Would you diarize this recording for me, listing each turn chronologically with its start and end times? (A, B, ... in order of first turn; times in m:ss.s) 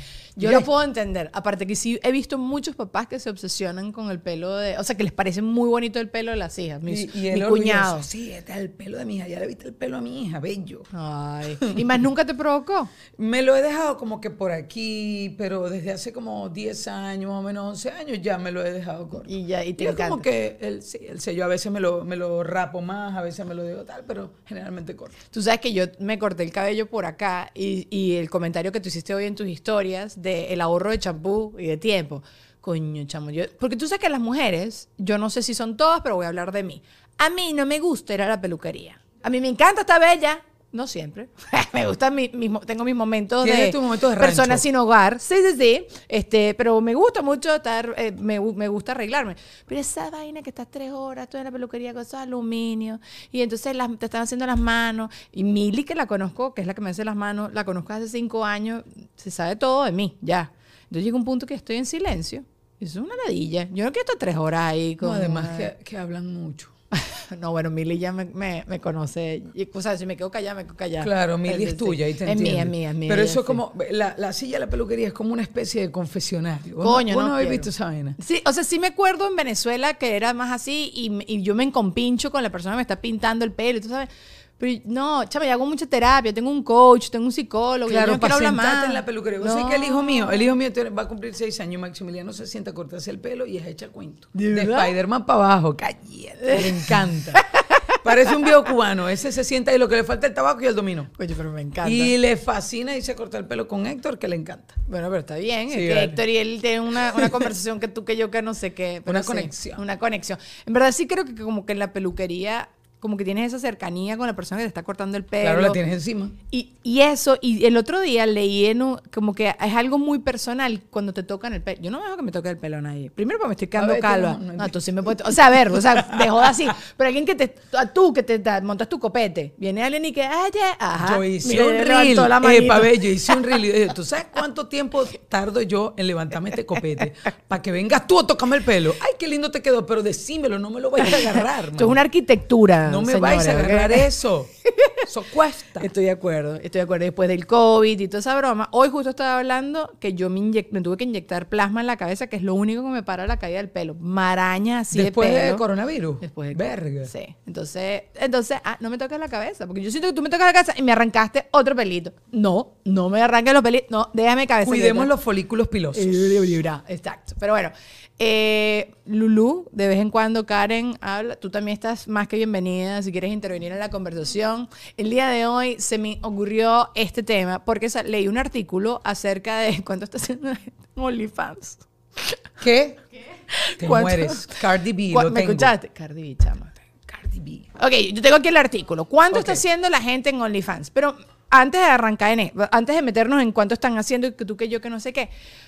0:00.4-0:08.1 A
0:00.4-0:00.7 B
0:06.9-0:10.9 B
0:10.9-0:12.9 A
0:13.2-0:25.2 B
0:19.2-0:20.2 A
0:25.3-1:05.7 A
0:43.4-0:44.6 B
1:05.0-1:06.7 B
1:06.9-1:13.6 A
1:11.0-1:18.2 B
1:16.8-1:30.4 A
1:27.9-1:37.4 B
1:34.3-1:34.9 A
1:36.4-1:38.0 A
1:38.0-1:41.1 B
1:41.2-1:42.1 A
1:41.8-1:44.8 B
1:44.9-1:55.8 A
1:45.7-1:46.2 B
1:46.9-1:47.5 B
1:49.0-1:49.8 B
1:55.4-1:56.3 B
1:56.5-2:13.6 A
2:03.7-2:06.5 B
2:11.0-2:22.0 B
2:21.0-2:24.1 A
2:22.8-2:24.5 B
2:25.1-2:25.9 B
2:25.8-2:35.6 A
2:34.9-2:37.1 B
2:36.2-2:45.1 A
2:44.6-2:46.2 B
2:45.9-3:02.4 A
3:02.6-3:03.0 B
3:03.5-3:06.7 A
3:03.8-3:05.7 B
3:07.1-3:07.7 B
3:07.8-3:15.3 A
3:09.3-3:09.6 B